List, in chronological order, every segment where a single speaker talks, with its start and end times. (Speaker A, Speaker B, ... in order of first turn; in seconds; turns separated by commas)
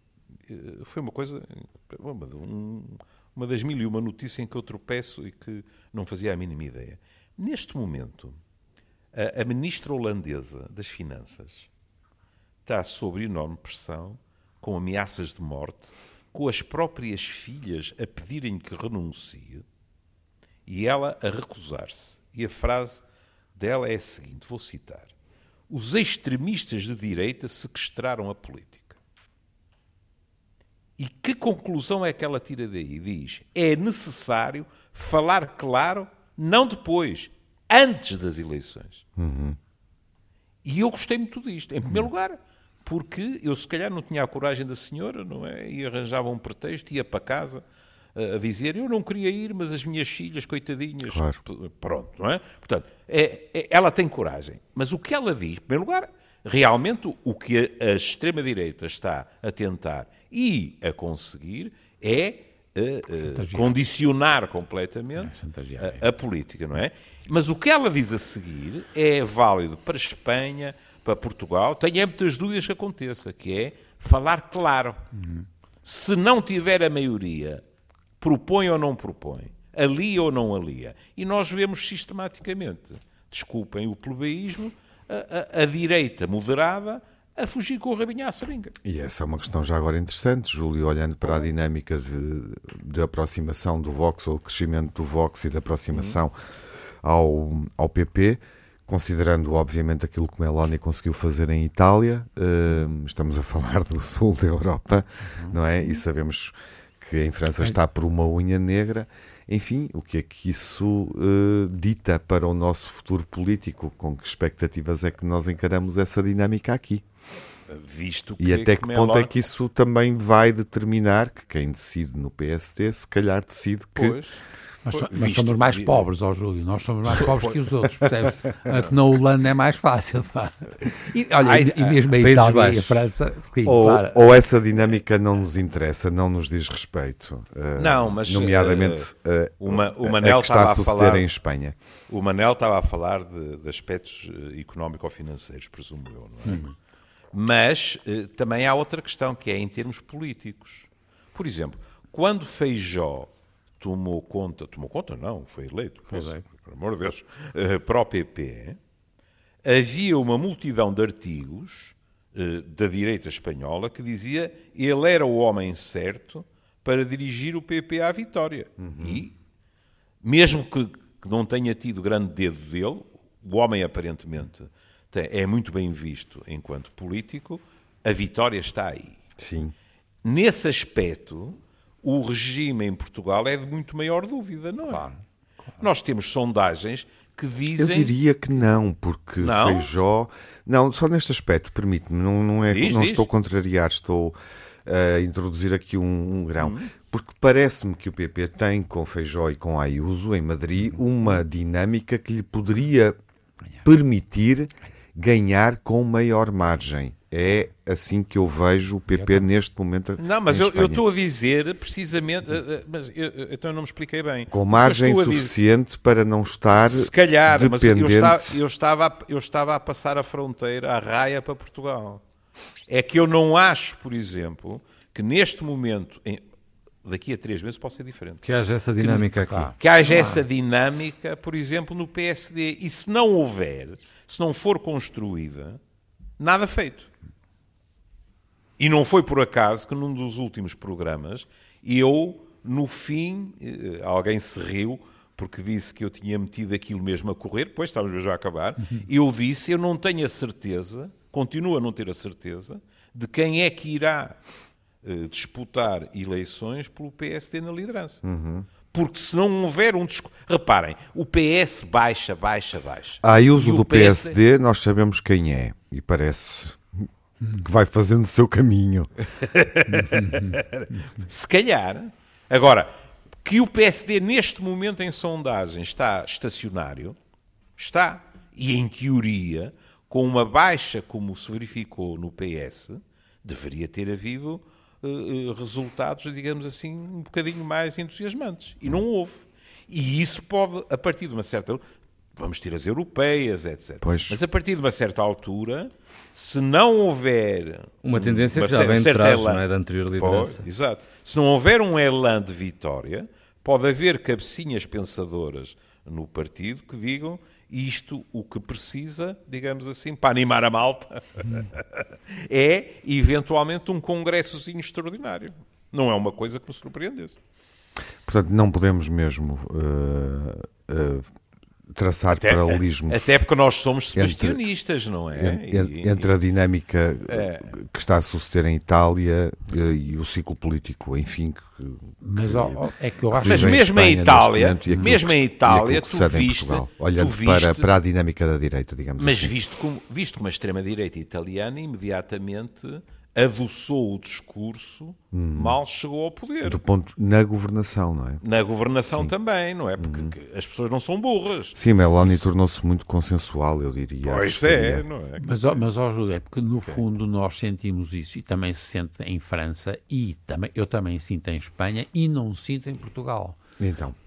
Speaker A: 0.5-8.4, Speaker A: 9.1-11.7, Speaker A: 12.6-19.6, Speaker A: 20.7-23.0, Speaker A: 23.5-25.1, Speaker A: 25.7-28.9, Speaker A: 31.0-39.0, Speaker B: 39.2-39.6, Speaker A: 40.6-47.6, Speaker A: 48.1-75.0, Speaker B: 51.1-51.4, Speaker C: 63.2-63.7, Speaker C: 65.2-66.1, Speaker C: 75.2-75.5, Speaker A: 75.8-77.6, Speaker A: 78.2-88.7, Speaker B: 88.8-96.4, Speaker A: 95.9-96.2, Speaker B: 97.0-117.0, Speaker C: 105.2-105.6, Speaker A: 117.7-119.4, Speaker B: 118.4-124.2, Speaker A: 123.9-126.0, Speaker C: 124.8-134.4, Speaker A: 127.2-127.5, Speaker A: 131.4-132.1, Speaker D: 132.1-133.1, Speaker B: 133.6-141.7, Speaker A: 137.8-139.1, Speaker A: 139.6-141.3, Speaker A: 142.1-146.7, Speaker C: 146.4-146.7, Speaker A: 147.3-158.8, Speaker C: 156.1-156.4, Speaker A: 159.6-169.3, Speaker B: 168.8-169.2, Speaker A: 170.2-179.2, Speaker B: 179.4-179.7, Speaker A: 180.2-185.0, Speaker C: 184.8-185.9, Speaker A: 185.8-188.2, Speaker B: 187.8-203.2, Speaker A: 189.4-189.9, Speaker A: 192.7-193.3, Speaker A: 196.6-196.9, Speaker B: 203.8-211.0, Speaker C: 209.1-209.4, Speaker A: 210.2-215.5, Speaker B: 214.5-218.6, Speaker A: 216.8-222.2, Speaker A: 222.9-226.4, Speaker A: 227.0-228.4, Speaker D: 228.4-229.7, Speaker C: 229.0-230.4, Speaker A: 229.8-235.8, Speaker A: 236.4-237.1, Speaker A: 238.8-254.3, Speaker A: 255.0-258.2, Speaker B: 258.2-258.7, Speaker A: 258.9-264.4, Speaker B: 263.2-269.1, Speaker A: 269.4-272.9, Speaker C: 269.9-270.5, Speaker A: 273.4-277.1, Speaker A: 277.8-291.8, Speaker A: 292.4-299.6, Speaker B: 294.0-294.4, Speaker D: 298.0-300.6, Speaker A: 300.1-317.4, Speaker B: 318.2-321.2, Speaker B: 321.9-323.4, Speaker A: 322.3-326.3, Speaker B: 324.1-324.6, Speaker B: 325.3-332.8, Speaker A: 327.3-327.7, Speaker C: 332.2-333.8, Speaker B: 333.3-339.6, Speaker A: 333.4-337.9, Speaker A: 339.2-346.8, Speaker B: 345.3-345.8, Speaker B: 346.6-348.4, Speaker A: 348.4-352.5, Speaker B: 350.0-350.3, Speaker B: 351.7-355.0, Speaker A: 354.2-355.8, Speaker C: 355.4-363.6, Speaker B: 363.8-364.2